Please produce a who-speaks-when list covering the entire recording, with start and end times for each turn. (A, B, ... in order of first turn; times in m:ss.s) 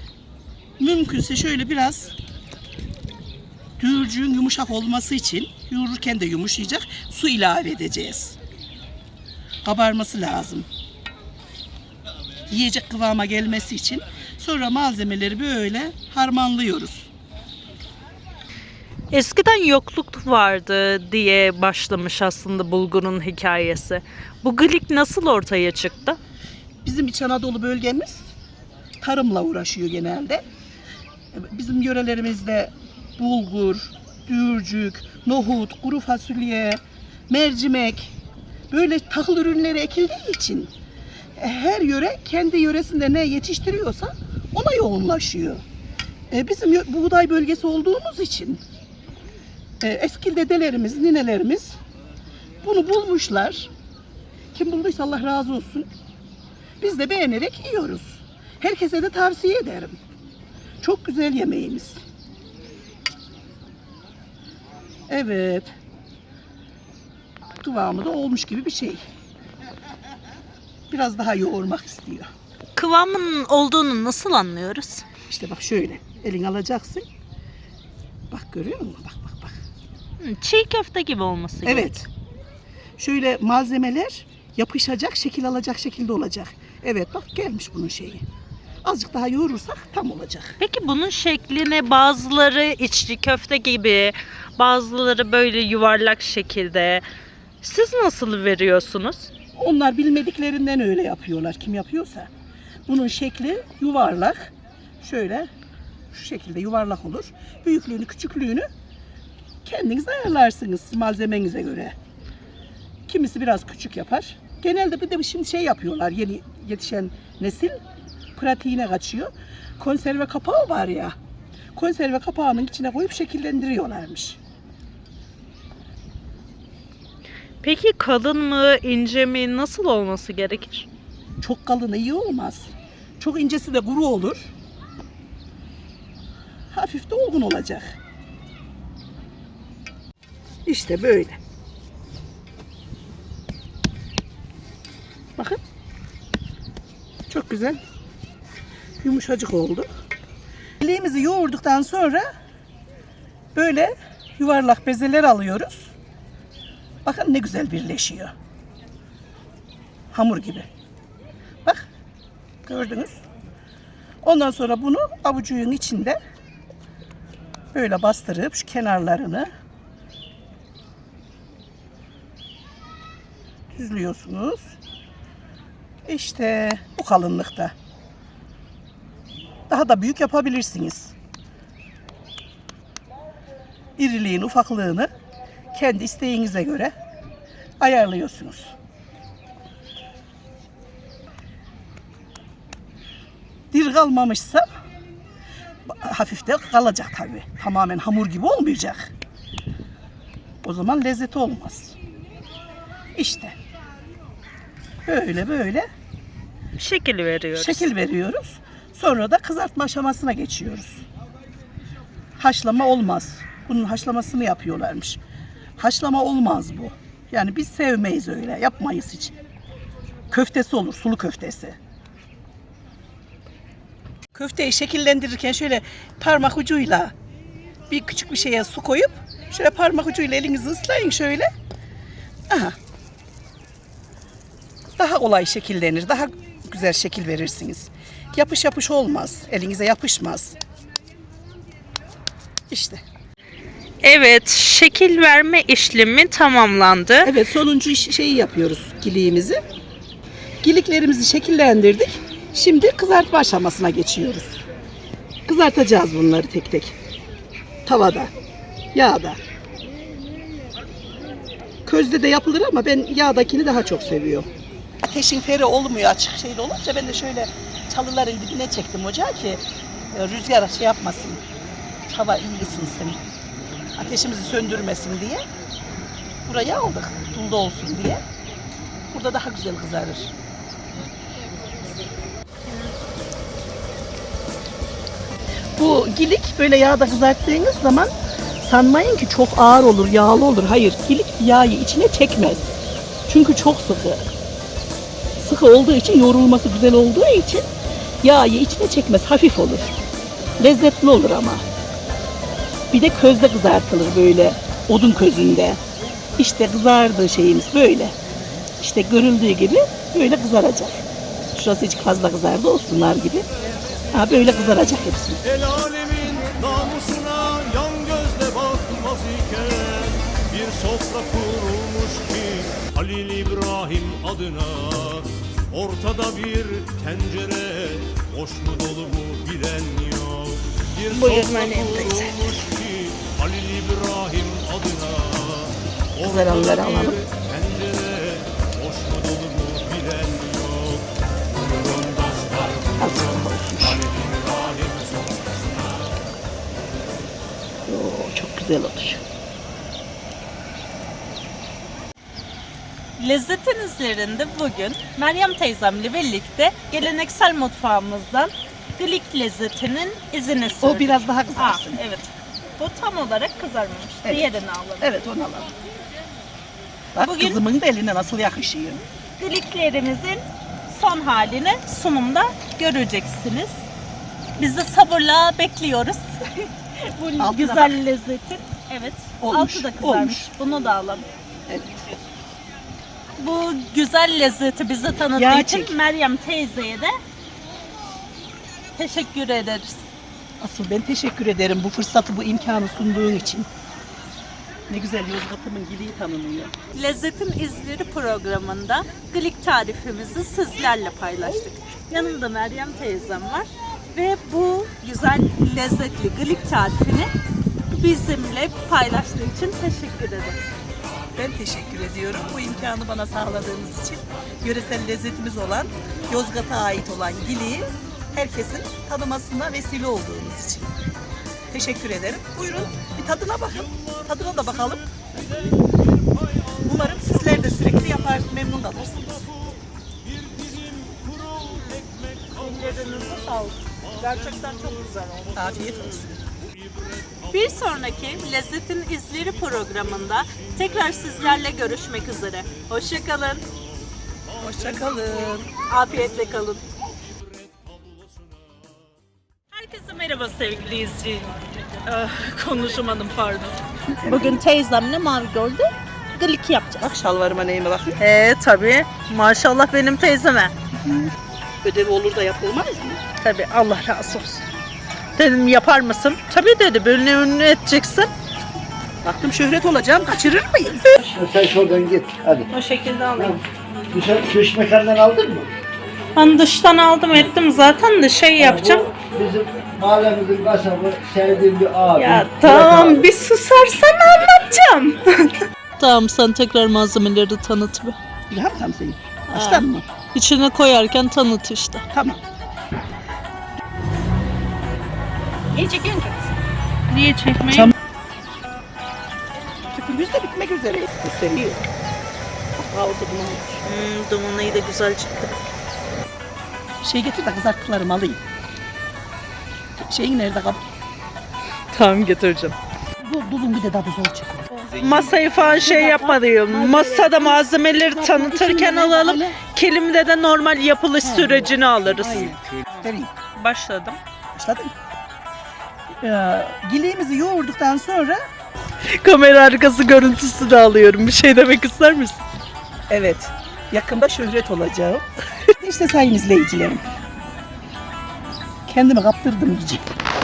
0:00.8-0:02.1 A
0:03.8-0:08.4 A
0:09.6-0:10.7 A
0:12.5-0:17.1 A
0:19.1-0:26.2 B
0:26.8-0:28.3 A
0:29.0-0:30.4 A
0:31.3-0:38.1 A
0:38.7-0:40.7 A
0:41.4-0:45.6 A
0:46.3-0:48.6 A
0:49.8-0:51.8 A
0:52.6-0:53.7 A
0:54.5-0:55.9 A
0:56.8-1:00.0 A
1:00.8-1:02.0 A
1:05.1-1:05.8 A
1:07.6-1:09.0 A
1:10.9-1:12.3 A
1:12.8-1:15.0 B
1:15.3-1:17.0 A
1:18.3-1:19.6 A
1:20.2-1:22.0 B
1:21.6-1:22.1 A
1:23.0-1:28.2 A
1:28.8-1:30.6 A
1:30.6-1:37.0 B
1:37.6-1:39.3 B
1:39.6-1:42.3 A
1:42.9-1:45.5 A
1:46.1-1:48.7 A
1:49.6-1:51.9 A
1:53.1-1:57.7 A
1:58.3-2:01.1 A
2:01.7-2:04.4 A
2:07.6-2:10.9 B
2:11.4-2:14.5 A
2:16.7-2:17.9 A
2:20.6-2:21.4 A
2:27.3-2:27.8 A
2:29.0-2:29.9 A
2:30.8-2:32.2 A
2:33.5-2:35.9 A
2:37.0-2:38.3 A
2:40.1-2:40.7 A
2:42.6-2:43.2 A
2:44.2-2:46.2 A
2:47.7-2:49.5 A
2:53.7-2:54.7 A
2:56.0-2:57.7 A
2:59.7-3:01.1 A
3:04.0-3:05.1 A
3:05.7-3:06.9 A
3:07.8-3:08.7 A
3:13.7-3:14.6 A
3:15.8-3:19.1 A
3:20.6-3:22.0 A
3:23.1-3:23.5 A
3:25.0-3:25.9 A
3:26.8-3:27.9 B
3:27.5-3:31.0 A
3:32.4-3:35.2 A
3:35.8-3:39.4 A
3:40.3-3:41.8 A
3:44.3-3:47.1 A
3:47.9-3:51.5 A
3:52.5-3:52.7 A
3:55.0-4:00.6 A
4:02.7-4:03.0 A
4:04.0-4:07.3 B
4:07.2-4:09.6 A
4:10.6-4:14.6 A
4:15.4-4:16.9 A
4:17.8-4:18.3 A
4:18.9-4:19.4 A
4:21.8-4:24.5 A
4:25.0-4:29.6 A
4:30.1-4:31.4 A
4:32.1-4:33.2 A
4:34.0-4:35.4 A
4:36.4-4:38.2 A
4:39.1-4:40.3 A
4:45.8-4:48.1 A
4:48.6-4:52.6 A
4:53.3-4:54.2 A
4:55.4-4:57.7 A
4:58.2-4:59.9 A
5:00.6-5:01.6 A
5:02.9-5:05.8 A
5:06.4-5:08.2 A
5:08.8-5:11.0 A
5:11.5-5:13.5 A
5:14.1-5:15.4 A
5:15.5-5:30.6 C
5:31.1-5:32.6 B
5:31.2-5:35.7 C
5:36.2-5:37.2 A
5:37.0-5:43.1 C
5:43.0-5:44.1 A
5:44.3-5:45.4 C
5:47.9-5:49.2 A
5:53.2-6:05.2 B
6:00.8-6:02.0 A
6:05.0-6:05.7 A
6:07.1-6:09.0 A
6:07.2-6:07.6 B
6:09.4-6:13.8 B
6:14.6-6:21.2 B
6:17.4-6:17.9 A
6:19.4-6:20.5 A
6:21.7-6:22.0 A
6:23.4-6:27.1 B
6:25.4-6:26.0 A
6:28.9-6:30.0 B
6:30.6-6:33.7 A
6:34.9-6:36.7 A
6:36.9-6:47.3 B
6:47.9-6:50.6 B
6:51.4-7:00.9 A
7:01.7-7:05.2 A
7:06.8-7:09.5 A
7:10.4-7:12.2 C
7:12.5-7:15.8 B
7:15.5-7:16.4 A
7:17.5-7:23.6 B
7:24.6-7:25.7 A
7:25.9-7:26.8 B
7:29.7-7:37.0 B
7:34.1-7:34.6 A
7:37.0-7:38.2 A
7:38.2-7:40.7 B
7:41.8-7:43.2 A
7:43.4-7:44.6 B
7:45.4-7:48.3 B
7:49.2-7:51.1 A
7:51.2-7:52.7 D
7:52.7-7:53.6 B
7:53.4-7:55.7 D
7:56.3-7:59.1 B
7:58.6-8:03.2 D
8:02.2-8:08.2 B
8:08.5-8:10.0 A
8:09.5-8:12.0 B
8:12.1-8:12.4 A
8:15.8-8:16.3 B
8:17.1-8:17.9 B
8:19.9-8:21.8 A
8:22.9-8:23.8 A
8:23.8-8:25.5 B
8:27.0-8:28.4 A
8:30.0-8:30.8 A
8:31.9-8:32.7 B
8:33.2-8:39.6 A
8:34.9-8:44.2 B
8:41.2-8:43.3 A
8:44.5-8:44.9 A
8:46.2-8:48.4 A
8:49.1-8:52.4 B
8:53.1-8:55.2 A
8:55.8-8:57.0 A
8:58.9-9:00.0 A